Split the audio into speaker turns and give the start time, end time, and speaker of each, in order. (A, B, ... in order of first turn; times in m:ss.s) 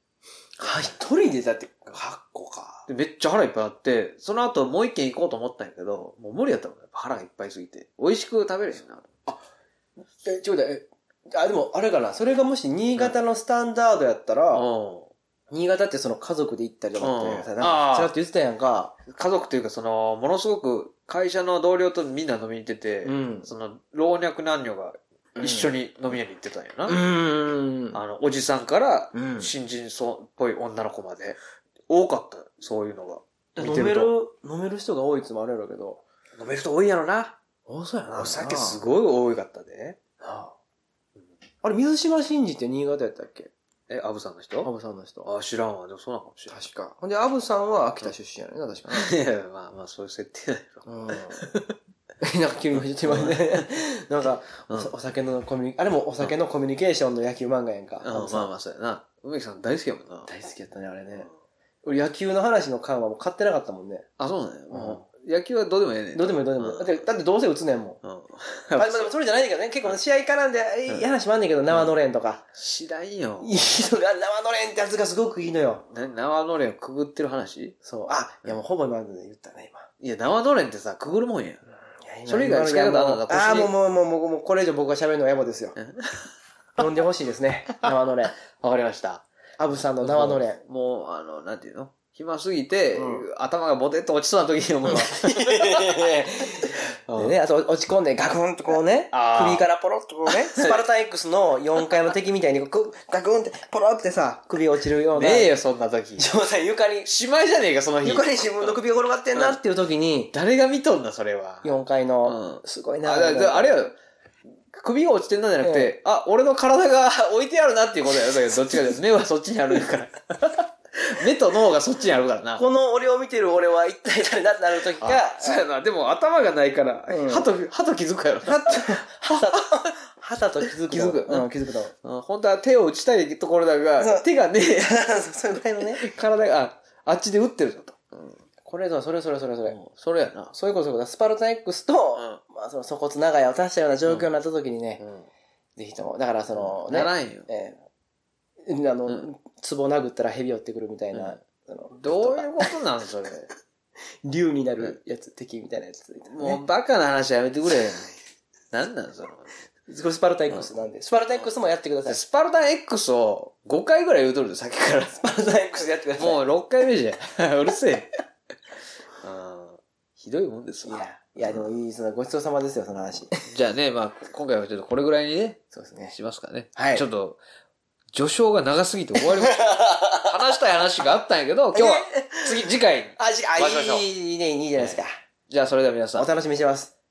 0:00.6-0:02.9 A
0:00.6-0:00.9 B
0:02.9-0:09.3 B
0:10.2-0:14.6 A
0:14.5-0:15.1 B
0:15.5-0:19.0 A
0:17.0-0:18.1 B
0:19.1-0:27.0 B
0:23.0-0:23.5 A
0:25.4-0:25.7 A
0:26.9-0:28.0 A
0:27.9-0:31.4 B
0:29.1-0:29.5 A
0:31.9-0:34.1 B
0:33.6-0:36.0 A
0:36.4-0:37.4 B
0:37.7-0:38.9 A
0:38.1-0:40.0 B
0:40.2-0:40.5 A
0:41.6-0:43.5 A
0:43.9-0:44.7 B
0:44.6-0:45.3 A
0:45.2-0:46.5 B
0:46.5-0:49.1 A
0:48.9-0:51.8 B
0:50.9-0:51.4 A
0:52.2-0:58.5 A
0:53.0-0:53.6 B
0:58.0-1:00.3 B
1:00.2-1:01.3 A
1:01.8-1:04.1 A
1:04.2-1:07.0 B
1:04.7-1:05.0 A
1:06.1-1:08.0 A
1:08.0-1:09.1 B
1:08.8-1:12.4 A
1:11.7-1:11.9 B
1:12.6-1:13.5 B
1:13.4-1:15.8 A
1:15.9-1:18.6 B
1:17.8-1:19.9 A
1:20.0-1:21.6 B
1:22.0-1:25.8 A
1:22.3-1:23.7 B
1:25.8-1:26.3 B
1:26.8-1:28.4 A
1:28.5-1:29.2 B
1:29.6-1:30.6 A
1:30.0-1:36.1 B
1:32.9-1:33.3 A
1:34.9-1:45.5 A
1:36.6-1:37.4 B
1:39.1-1:39.6 B
1:40.3-1:40.8 B
1:45.1-1:46.3 B
1:46.2-1:47.1 A
1:47.0-1:48.8 B
1:48.0-1:50.3 A
1:50.3-1:51.7 B
1:51.6-1:53.8 A
1:52.2-1:54.0 B
1:54.7-2:02.6 B
1:55.6-1:55.9 A
2:02.6-2:05.6 A
2:05.0-2:09.5 B
2:07.1-2:07.5 A
2:08.4-2:11.9 A
2:10.7-2:11.5 B
2:12.0-2:15.0 B
2:14.0-2:16.0 A
2:15.7-2:18.4 B
2:18.6-2:19.8 A
2:19.6-2:20.5 B
2:20.5-2:25.0 A
2:25.0-2:25.3 B
2:25.8-2:27.8 A
2:26.6-2:27.5 B
2:28.6-2:32.7 A
2:31.9-2:33.5 B
2:34.2-2:36.6 A
2:36.3-2:38.2 B
2:38.7-2:39.5 B
2:39.9-2:42.2 A
2:42.1-2:45.2 B
2:45.2-2:46.4 A
2:46.2-2:48.2 B
2:49.2-2:51.7 B
2:50.8-2:53.4 A
2:53.5-2:57.4 B
2:55.7-2:56.1 A
2:56.8-2:57.1 A
2:58.1-3:04.1 B
2:59.2-3:00.3 A
3:01.7-3:05.1 A
3:04.8-3:06.3 B
3:06.1-3:06.9 A